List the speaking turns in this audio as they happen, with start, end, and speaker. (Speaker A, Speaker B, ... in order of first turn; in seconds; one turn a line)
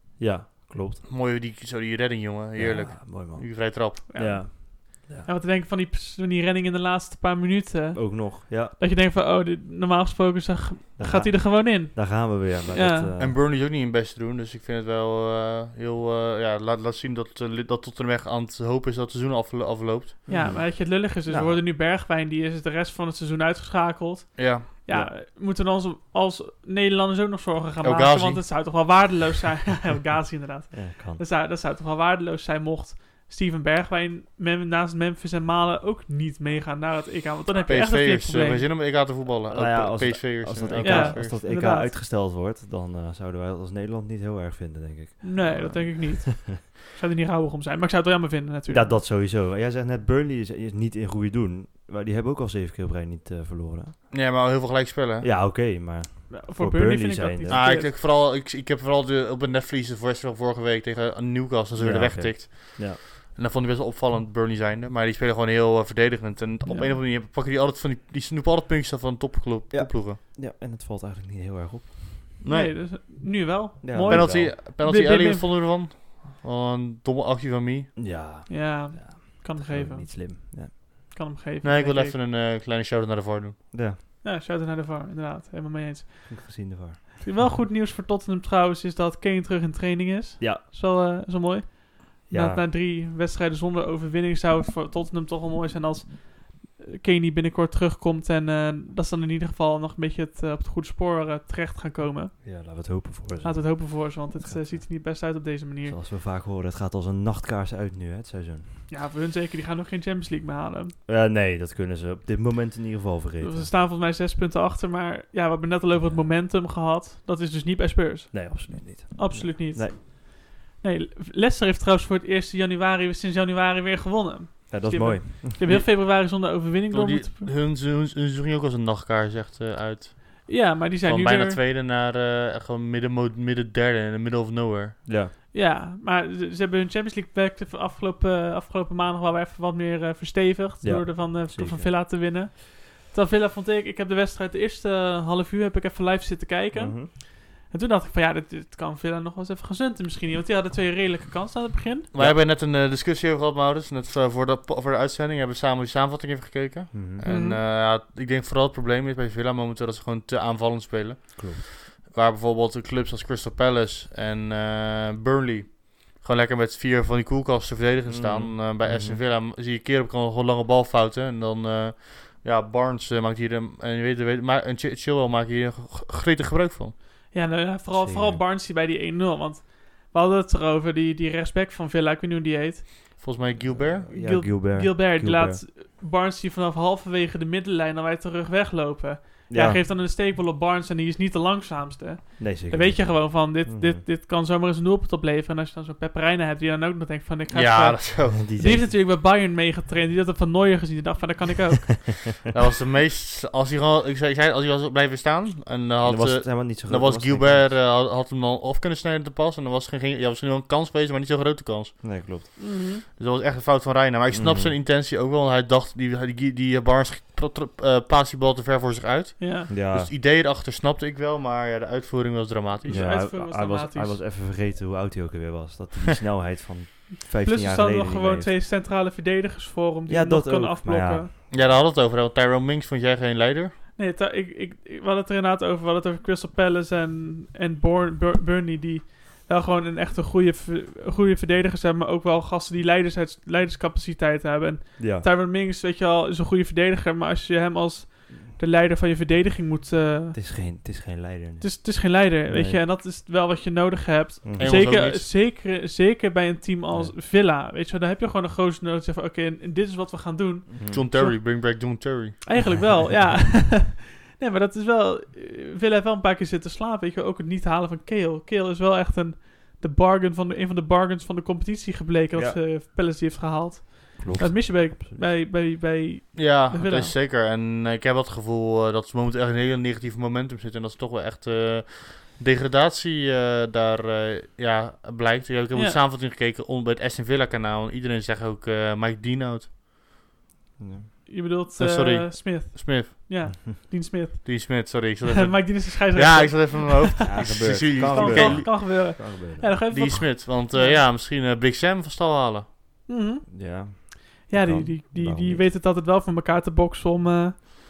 Speaker A: 0.2-1.0
Speaker B: 1.1-4.0
Speaker A: 2.5-5.3
Speaker C: 4.1-13.1
Speaker A: 7.9-8.7
Speaker A: 11.0-13.4
Speaker B: 13.2-20.3
Speaker A: 20.3-21.6
Speaker C: 20.3-38.7
Speaker B: 24.4-24.7
Speaker B: 27.8-28.4
Speaker A: 30.7-31.2
Speaker B: 37.6-41.4
Speaker A: 39.5-46.6
Speaker C: 40.8-41.9
Speaker C: 45.2-49.0
Speaker A: 48.7-54.0
Speaker B: 54.1-55.3
Speaker A: 55.2-57.6
Speaker C: 56.3-57.9
Speaker B: 57.5-70.2
Speaker A: 61.7-63.0
Speaker C: 66.7-67.0
Speaker A: 69.7-72.0
Speaker B: 72.4-72.7
Speaker C: 72.5-75.5
Speaker A: 73.8-74.5
Speaker B: 74.0-77.9
Speaker A: 78.0-80.8
Speaker C: 78.5-82.2
Speaker B: 81.6-83.6
Speaker A: 83.7-84.0
Speaker C: 84.2-102.9
Speaker A: 86.3-87.2
Speaker A: 92.3-92.6
Speaker A: 102.4-104.9
Speaker C: 103.4-106.0
Speaker A: 105.8-108.8
Speaker C: 108.9-111.0
Speaker A: 111.0-113.7
Speaker C: 113.4-127.5
Speaker A: 116.0-116.3
Speaker A: 118.3-120.0
Speaker A: 124.7-125.8
Speaker B: 125.6-126.0
Speaker B: 126.9-135.0
Speaker C: 130.4-131.6
Speaker A: 135.1-135.3
Speaker C: 135.5-152.1
Speaker A: 140.8-141.9
Speaker A: 146.7-147.1
Speaker B: 152.1-177.0
Speaker A: 152.1-152.4
Speaker A: 156.9-157.2
Speaker C: 157.2-157.6
Speaker A: 161.3-161.6
Speaker A: 168.1-169.2
Speaker C: 177.3-183.2
Speaker A: 177.9-178.4
Speaker B: 183.2-184.3
Speaker A: 183.6-185.6
Speaker C: 184.1-202.3
Speaker A: 189.5-189.8
Speaker A: 192.4-194.0
Speaker B: 197.5-198.4
Speaker A: 198.3-198.9
Speaker B: 202.5-223.1
Speaker A: 206.0-207.7
Speaker A: 212.0-212.5
Speaker C: 212.6-213.0
Speaker A: 214.3-214.7
Speaker C: 219.4-219.7
Speaker A: 219.7-220.1
Speaker C: 222.8-224.2
Speaker A: 222.8-228.6
Speaker C: 227.3-231.3
Speaker A: 230.1-231.3
Speaker B: 231.5-233.8
Speaker C: 233.9-250.4
Speaker A: 245.0-245.3
Speaker A: 250.3-252.8
Speaker C: 251.6-277.1
Speaker A: 254.4-254.9
Speaker B: 254.6-255.3
Speaker A: 256.9-257.1
Speaker A: 260.7-261.1
Speaker B: 260.9-262.4
Speaker A: 272.3-272.6
Speaker A: 274.2-275.3
Speaker B: 276.3-289.7
Speaker C: 285.7-286.0
Speaker A: 290.8-291.1
Speaker C: 291.3-301.0
Speaker B: 291.8-293.1
Speaker B: 294.4-299.2
Speaker A: 297.2-299.7
Speaker B: 299.9-302.7
Speaker C: 303.1-307.6
Speaker A: 303.5-305.7